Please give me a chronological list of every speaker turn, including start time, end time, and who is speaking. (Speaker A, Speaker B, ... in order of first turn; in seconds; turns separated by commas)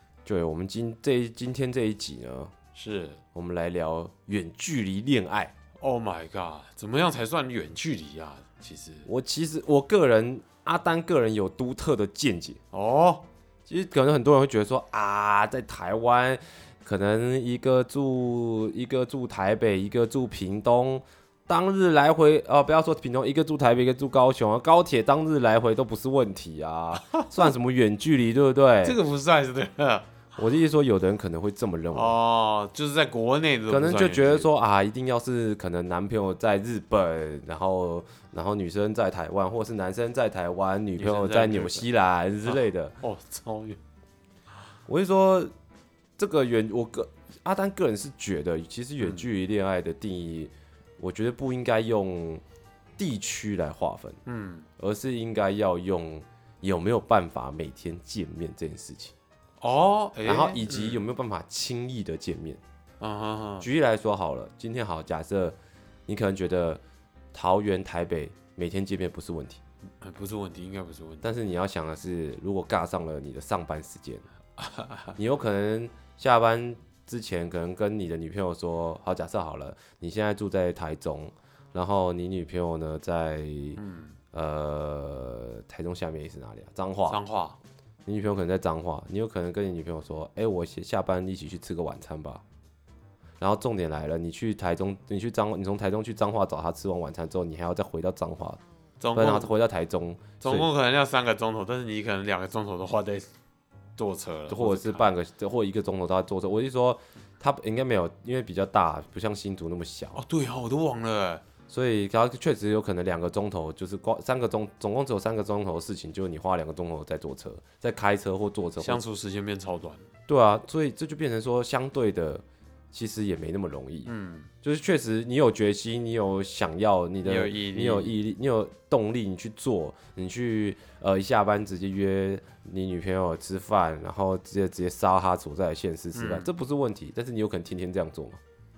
Speaker A: 0.2-2.5, Speaker B: 2.7-3.2, Speaker A: 3.3-5.5, Speaker B: 5.8-9.1, Speaker A: 9.1-12.6, Speaker B: 12.7-13.2, Speaker A: 13.7-29.0, Speaker B: 28.8-30.1, Speaker A: 30.4-32.1, Speaker B: 31.9-34.5, Speaker A: 33.7-43.0, Speaker B: 41.0-41.9, Speaker B: 42.5-43.8, Speaker A: 44.9-45.5, Speaker A: 46.2-52.4, Speaker B: 49.0-49.3, Speaker A: 53.0-54.2, Speaker B: 54.2-54.7, Speaker A: 54.8-59.1, Speaker B: 59.6-61.0, Speaker A: 60.2-62.6, Speaker B: 63.0-63.7, Speaker A: 63.6-66.8, Speaker A: 67.3-69.6, Speaker B: 70.0-71.3, Speaker A: 71.2-74.2, Speaker B: 74.6-75.2, Speaker A: 75.2-83.8, Speaker B: 83.8-84.2, Speaker A: 84.3-87.2, Speaker B: 87.1-87.6, Speaker A: 88.0-92.4, Speaker A: 93.4-98.6, Speaker B: 99.0-99.5, Speaker A: 99.1-100.7, Speaker B: 100.4-103.3, Speaker B: 104.0-105.1, Speaker A: 104.5-110.2, Speaker B: 110.1-111.4, Speaker A: 111.7-119.0, Speaker B: 118.8-120.1, Speaker A: 120.3-124.1, Speaker B: 124.0-124.5, Speaker A: 124.6-138.4, Speaker B: 127.2-128.2, Speaker B: 136.1-136.5